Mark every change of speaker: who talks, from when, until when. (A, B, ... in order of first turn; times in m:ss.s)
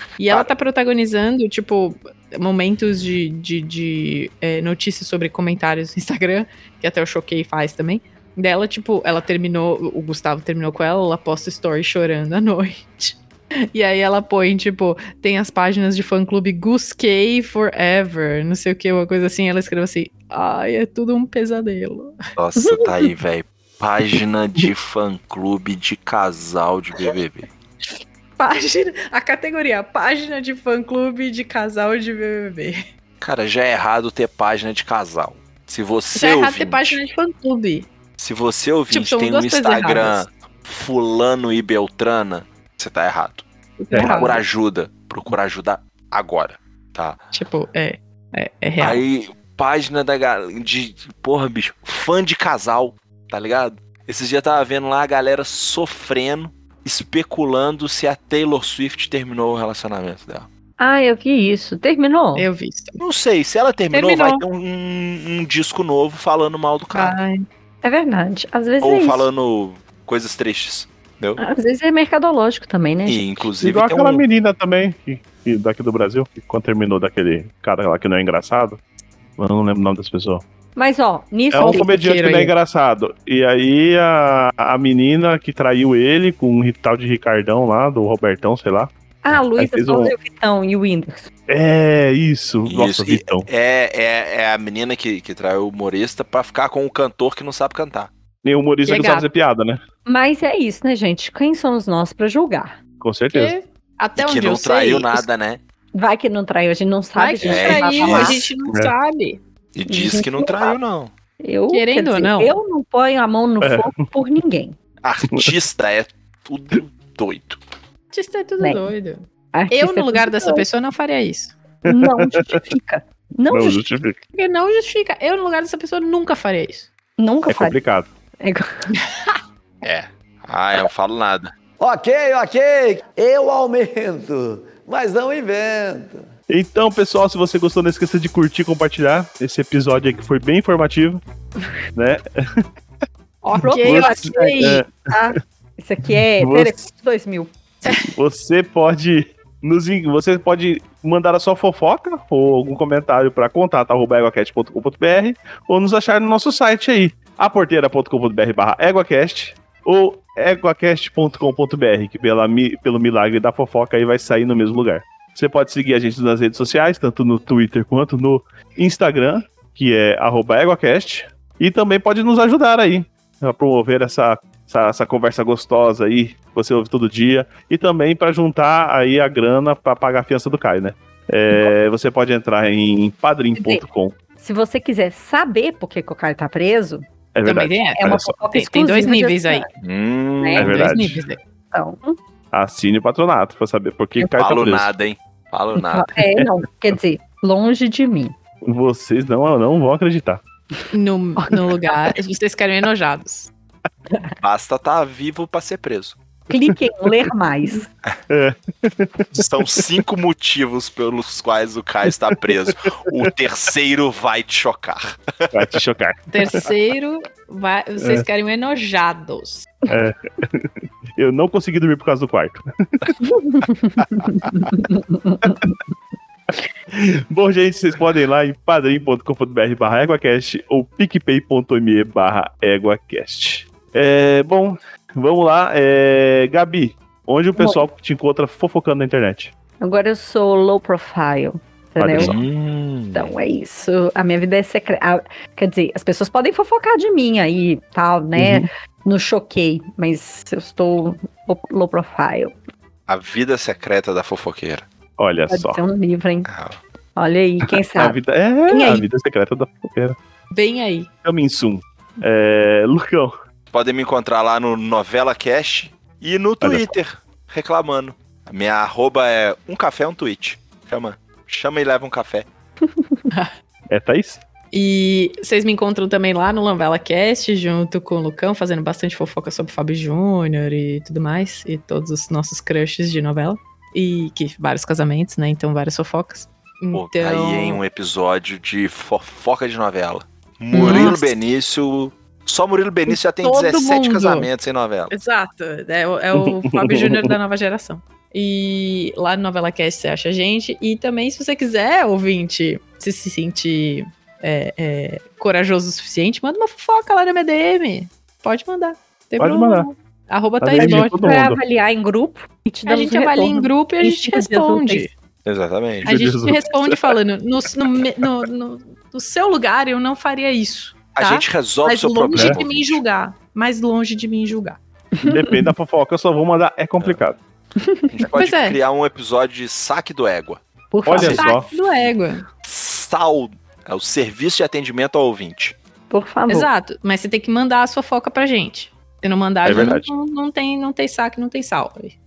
0:00.2-0:13.2 A
0:13.7-0:22.2 A
0:22.4-0:27.5 B
0:22.6-0:23.1 C
0:28.4-0:32.8 A
0:33.2-0:37.1 B
0:36.2-0:37.9 A
0:38.2-0:43.4 B
0:38.9-0:40.2 A
0:43.8-0:44.4 A
0:44.0-0:47.2 B
0:44.0-0:44.3 C
0:47.3-0:49.0 A
0:48.8-1:00.5 B
1:00.8-1:02.5 C
1:02.4-1:03.0 A
1:03.0-1:07.2 B
1:03.9-1:04.4 A
1:07.0-1:07.4 A
1:07.8-1:09.3 C
1:08.8-1:11.4 B
1:11.4-1:13.5 C
1:13.0-1:14.2 B
1:13.6-1:18.8 D
1:19.4-1:20.4 D
1:20.8-1:21.9 C
1:21.5-1:28.9 D
1:21.6-1:22.5 A
1:29.2-1:31.3 C
1:29.6-1:30.1 D
1:31.5-1:33.5 D
1:32.7-1:38.1 B
1:38.4-1:39.8 D
1:38.8-1:39.3 A
1:40.0-1:42.8 C
1:43.0-1:43.5 D
1:43.3-1:45.3 A
1:44.2-1:45.6 B
1:45.9-1:48.5 C
1:47.2-1:49.4 A
1:47.4-1:48.5 B
1:49.7-1:51.1 B
1:49.9-1:50.8 C
1:51.4-1:54.8 C
1:51.7-1:52.6 A
1:53.6-1:53.9 D
1:55.0-1:57.6 B
1:58.1-2:01.6 A
1:58.6-1:58.9 C
1:59.5-2:00.6 C
2:01.8-2:03.8 C
2:01.9-2:02.6 D
2:03.5-2:04.2 D
2:04.3-2:06.9 A
2:07.2-2:07.8 C
2:07.5-2:08.1 D
2:08.4-2:09.0 C
2:09.8-2:11.5 B
2:11.8-2:16.3 E
2:16.5-2:21.2 D
2:22.0-2:22.2 D
2:23.4-2:24.8 A
2:23.5-2:27.5 C
2:23.6-2:25.1 D
2:26.4-2:26.8 D
2:27.8-2:28.1 A
2:27.9-3:04.2 D
3:03.6-3:03.8 C
3:04.4-3:07.1 C
3:07.3-3:08.4 D
3:07.5-3:09.6 A
3:08.0-3:09.7 C
3:09.8-3:10.8 B
3:10.4-3:10.9 C
3:10.6-3:11.4 A
3:10.6-3:11.2 D
3:11.7-3:12.2 C
3:12.5-3:14.9 D
3:14.4-3:16.1 B
3:15.8-3:18.4 C
3:18.7-3:20.4 D
3:20.9-3:23.5 A
3:21.4-3:21.7 C
3:24.4-3:26.2 B
3:26.5-3:27.9 C
3:28.3-3:29.5 D
3:29.4-3:35.8 B
3:35.5-3:36.7 D
3:36.3-3:39.7 A
3:38.0-3:38.3 D
3:39.9-3:43.4 D
3:43.2-3:45.8 C
3:45.4-3:45.8 D
3:46.9-3:59.5 D
3:57.6-3:57.8 C
3:59.8-4:02.4 C
4:02.0-4:02.4 D
4:02.1-4:03.3 B
4:03.1-4:12.6 C
4:08.4-4:08.7 D
4:13.1-4:14.9 B
4:15.2-4:15.8 D
4:15.5-4:16.5 C
4:16.5-4:16.8 B
4:17.2-4:18.2 C
4:18.0-4:20.2 D
4:18.7-4:19.1 C
4:20.5-4:21.1 A
4:21.2-4:23.4 D
4:23.7-4:32.5 B
4:26.6-4:26.9 D
4:32.8-4:33.3 C
4:33.9-4:34.4 D
4:34.7-4:47.8 A
4:46.9-4:55.1 B
4:50.7-4:51.2 C
4:50.8-4:51.3 A
4:53.1-4:54.5 A
4:55.1-5:11.3 A
4:56.4-4:57.3 D
5:09.4-5:09.9 D
5:10.6-5:11.6 D
5:10.8-5:15.1 C
5:12.8-5:15.1 A
5:15.4-5:16.1 B
5:16.0-5:17.0 D
5:16.0-5:24.8 A
5:21.2-5:23.0 B
5:25.2-5:25.7 C
5:25.2-5:27.4 D
5:27.8-5:28.3 C
5:28.1-5:30.6 B
5:28.3-5:28.8 A
5:30.9-5:31.5 C
5:31.1-5:31.7 D
5:31.2-5:32.4 A
5:32.6-5:35.8 B
5:36.1-5:36.7 C
5:36.5-5:42.2 A
5:39.6-5:40.1 D